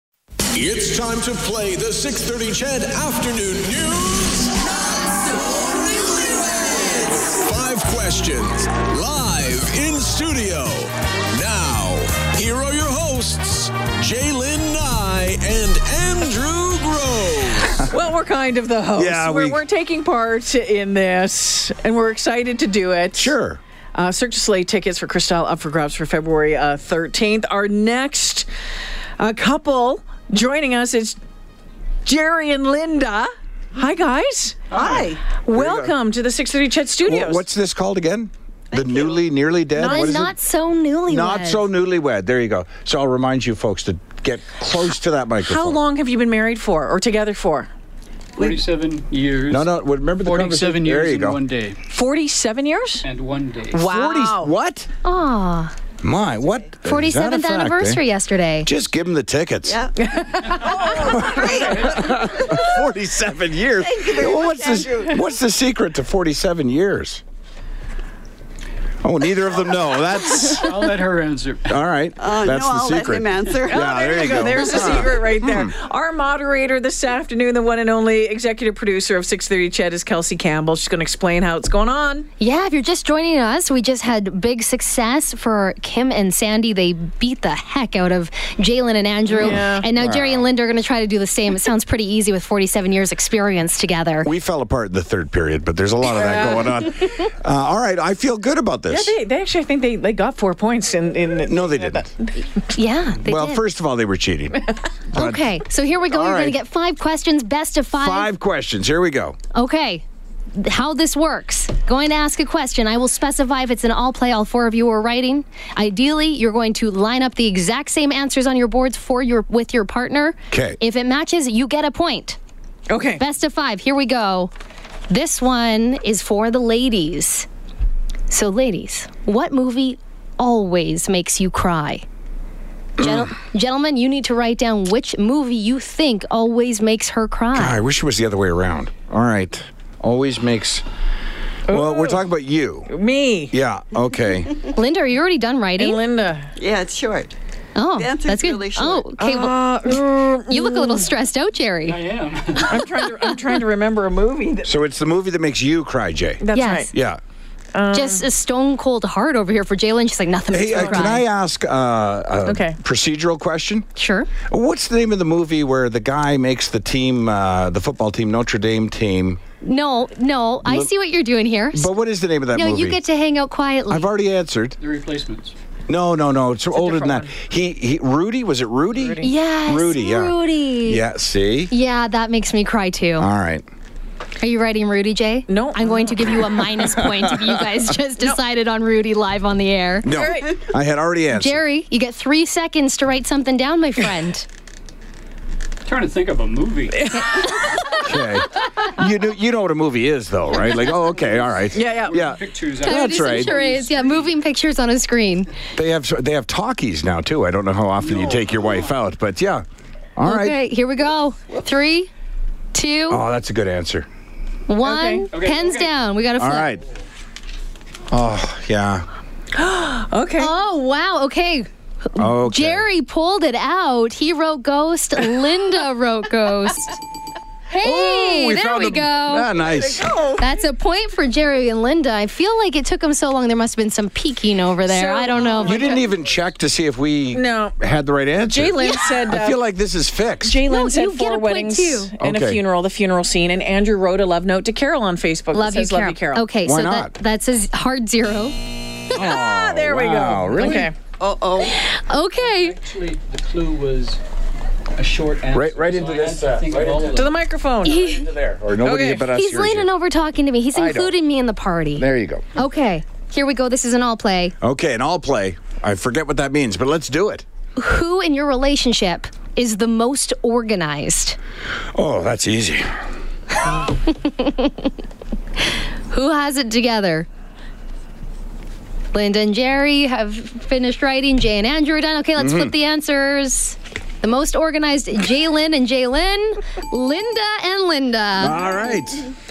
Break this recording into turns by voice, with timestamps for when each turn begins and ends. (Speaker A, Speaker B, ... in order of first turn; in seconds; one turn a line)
Speaker A: 0.5-4.2
Speaker B: 4.0-4.6
Speaker B: 5.3-15.3
Speaker A: 7.5-13.3
Speaker A: 14.1-17.2
Speaker B: 16.2-17.8
Speaker C: 17.8-23.3
Speaker D: 18.9-19.6
Speaker D: 23.1-23.6
Speaker C: 23.9-28.5
Speaker C: 29.2-31.2
Speaker C: 32.0-34.6
Speaker D: 34.7-35.9
Speaker C: 35.4-37.4
Speaker D: 37.0-40.3
Speaker C: 39.8-40.3
Speaker E: 39.8-41.7
Speaker D: 41.1-45.8
Speaker C: 45.4-47.7
Speaker F: 48.4-48.6
Speaker B: 48.4-49.7
Speaker D: 49.5-51.4
Speaker B: 50.2-51.8
Speaker C: 51.9-53.1
Speaker B: 53.0-53.8
Speaker C: 53.7-54.5
Speaker D: 53.8-54.9
Speaker E: 55.0-55.7
Speaker D: 56.0-58.0
Speaker E: 56.8-58.7
Speaker D: 58.6-59.9
Speaker C: 60.0-61.2
Speaker F: 60.4-62.6
Speaker D: 61.0-67.2
Speaker F: 63.9-65.2
Speaker D: 69.0-70.9
Speaker B: 70.6-71.7
Speaker D: 71.7-75.7
Speaker F: 72.2-75.0
Speaker C: 73.6-82.3
Speaker E: 82.4-94.3
Speaker C: 89.3-89.9
Speaker D: 89.4-90.5
Speaker D: 94.2-99.2
Speaker C: 96.1-96.8
Speaker C: 98.9-102.3
Speaker D: 101.5-102.1
Speaker E: 102.8-103.6
Speaker D: 103.2-104.6
Speaker D: 105.1-105.5
Speaker E: 105.1-108.3
Speaker D: 106.1-106.6
Speaker D: 107.9-109.4
Speaker E: 109.5-110.0
Speaker E: 110.5-122.4
Speaker D: 120.5-120.8
Speaker C: 122.9-123.2
Speaker E: 123.2-124.5
Speaker E: 125.1-127.5
Speaker E: 128.3-132.0
Speaker D: 133.0-133.3
Speaker E: 133.0-137.8
Speaker D: 137.5-140.8
Speaker C: 141.7-142.2
Speaker D: 141.7-142.9
Speaker C: 142.9-143.6
Speaker D: 143.5-144.7
Speaker E: 144.7-146.0
Speaker C: 145.8-146.6
Speaker F: 146.6-147.3
Speaker E: 147.8-153.3
Speaker F: 148.0-149.1
Speaker C: 149.2-151.1
Speaker B: 152.0-152.6
Speaker C: 152.6-154.7
Speaker D: 154.6-157.2
Speaker C: 156.4-156.9
Speaker E: 156.5-156.9
Speaker C: 157.7-158.2
Speaker E: 157.9-161.2
Speaker D: 160.5-163.9
Speaker C: 160.8-161.1
Speaker C: 162.5-162.8
Speaker E: 164.0-164.3
Speaker D: 164.5-169.4
Speaker E: 169.6-171.9
Speaker D: 170.6-170.9
Speaker D: 171.7-173.0
Speaker E: 172.5-174.1
Speaker D: 173.9-174.8
Speaker B: 174.8-175.5
Speaker D: 175.9-181.7
Speaker C: 176.7-177.3
Speaker C: 178.9-179.3
Speaker E: 179.2-181.0
Speaker E: 181.7-183.3
Speaker D: 183.2-183.7
Speaker E: 184.4-190.1
Speaker C: 185.5-186.2
Speaker D: 186.8-187.6
Speaker D: 190.0-191.6
Speaker C: 190.1-190.6
Speaker E: 191.3-194.5
Speaker B: 195.9-197.2
Speaker C: 197.0-198.0
Speaker E: 197.2-197.5
Speaker D: 198.0-203.6
Speaker C: 201.7-202.2
Speaker B: 202.1-204.3
Speaker E: 202.8-205.5
Speaker D: 205.8-209.6
Speaker D: 210.2-210.6
Speaker E: 210.2-212.1
Speaker E: 212.7-213.2
Speaker D: 213.1-214.1
Speaker E: 214.7-216.7
Speaker C: 214.8-215.3
Speaker B: 215.3-215.9
Speaker D: 216.4-216.8
Speaker D: 218.1-219.1
Speaker C: 219.6-220.5
Speaker E: 220.4-227.0
Speaker D: 222.2-222.9
Speaker E: 227.7-229.5
Speaker D: 227.8-230.2
Speaker C: 229.8-230.3
Speaker E: 230.4-236.0
Speaker C: 234.8-236.1
Speaker D: 235.6-240.6
Speaker C: 237.3-237.8
Speaker C: 238.5-239.6
Speaker C: 240.4-246.5
Speaker E: 240.7-242.1
Speaker D: 242.2-242.6
Speaker E: 245.5-248.6
Speaker D: 246.7-247.1
Speaker D: 249.1-250.9
Speaker C: 249.1-250.9
Speaker F: 251.2-251.7
Speaker E: 251.6-252.8
Speaker B: 252.6-254.2
Speaker B: 255.0-257.3
Speaker D: 255.5-257.3
Speaker C: 257.1-258.1
Speaker E: 257.9-258.3
Speaker D: 258.0-259.9
Speaker C: 258.8-259.3
Speaker E: 259.3-264.5
Speaker D: 260.7-261.1
Speaker D: 261.9-262.5
Speaker D: 264.6-267.4
Speaker E: 267.8-271.4
Speaker D: 271.9-272.9
Speaker E: 274.0-274.9
Speaker E: 276.1-277.3
Speaker E: 279.1-288.6
Speaker D: 282.4-282.7
Speaker D: 288.4-289.3